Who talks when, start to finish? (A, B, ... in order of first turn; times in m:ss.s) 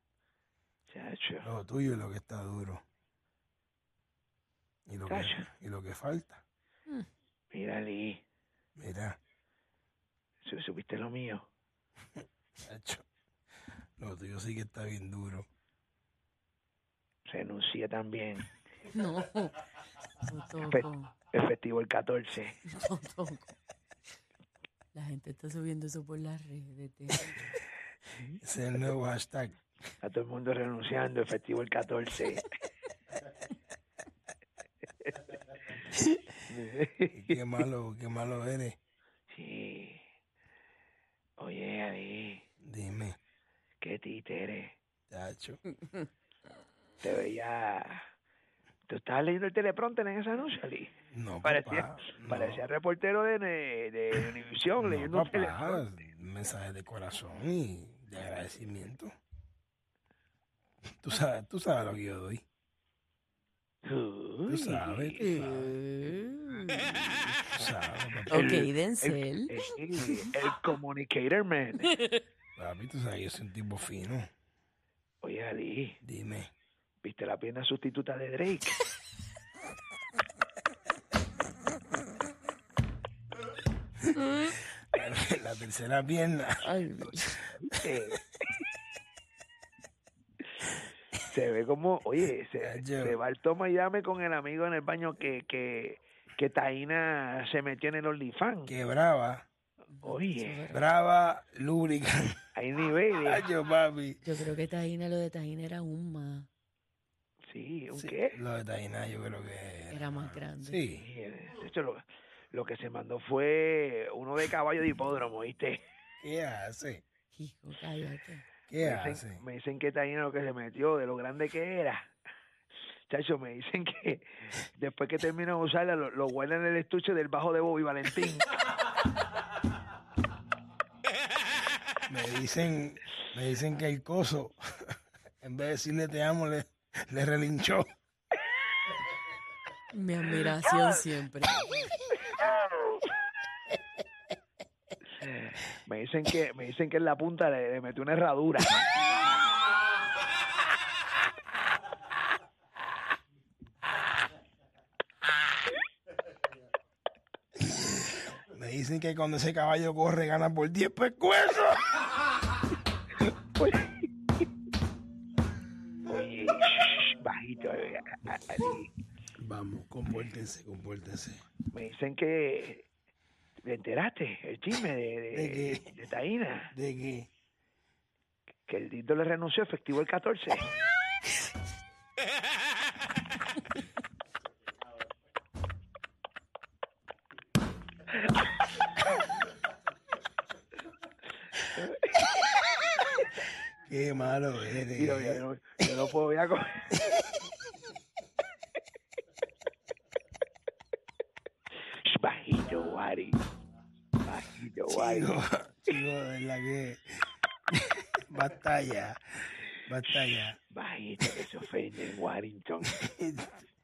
0:00.9-0:01.5 A
0:01.4-0:02.8 B
0:04.9-0:06.4 B
0:05.1-0:05.5 A
0:07.5-0:08.2 A
0:08.8-0:09.2 B
0:10.4-0:11.4 A
0:12.7-0:13.0 B
0:14.0-0:15.5 B
0:17.3-0:18.5 A
0:18.9-0:19.6 C
0:20.2-0:21.1 C
0:20.7-0:22.5 A
0:22.7-0:23.5 C
0:24.9-0:27.5 C
0:28.4-0:29.6 B
0:30.0-0:32.4 A
0:36.5-0:37.4 A
0:37.1-0:38.8 B
0:39.3-0:40.0 A
0:41.4-0:42.4 A
0:42.6-0:43.2 B
0:43.8-0:44.7 A
0:45.1-0:45.6 B
0:47.0-0:48.0 A
0:48.9-0:50.9 A
0:51.1-0:52.6 B
0:51.4-0:55.8 A
0:54.8-0:59.1 B
1:01.0-1:02.4 B
1:03.8-1:05.4 A
1:04.5-1:05.7 B
1:05.2-1:07.0 C
1:07.5-1:08.5 B
1:08.3-1:10.2 C
1:08.3-1:11.9 A
1:12.6-1:14.3 B
1:15.2-1:16.0 A
1:16.0-1:16.5 B
1:17.0-1:18.8 A
1:24.2-1:24.5 C
1:24.9-1:26.6 B
1:26.6-1:27.4 C
1:27.5-1:28.2 A
1:31.3-1:38.7 A
1:32.6-1:33.2 B
1:38.7-1:39.4 B
1:40.0-1:40.8 C
1:40.0-1:40.6 A
1:40.7-1:42.4 B
1:42.6-1:43.5 A
1:43.2-1:44.2 B
1:44.2-1:46.5 C
1:47.5-1:48.4 A
1:47.9-1:51.0 B
1:49.9-1:50.8 C
1:51.0-1:55.8 A
1:56.2-1:57.0 B
1:57.3-1:58.4 C
1:58.7-1:59.4 B
1:58.8-2:02.1 A
2:03.1-2:04.2 A
2:04.8-2:08.5 A
2:12.1-2:17.9 B
2:19.9-2:21.7 C
2:25.9-2:28.8 A
2:37.7-2:42.0 B
2:46.1-2:48.9 A
2:49.4-2:51.4 B
2:51.7-2:52.8 A
2:53.6-2:56.7 A
2:55.3-2:56.0 B
2:56.7-2:57.3 B
2:58.7-3:00.6 A
3:11.8-3:12.2 A
3:13.9-3:15.4 B
3:14.9-3:16.7 A
3:22.0-3:23.4 A
3:24.2-3:25.4 A
3:24.9-3:30.6 B
3:30.7-3:32.9 A
3:32.9-3:33.6 B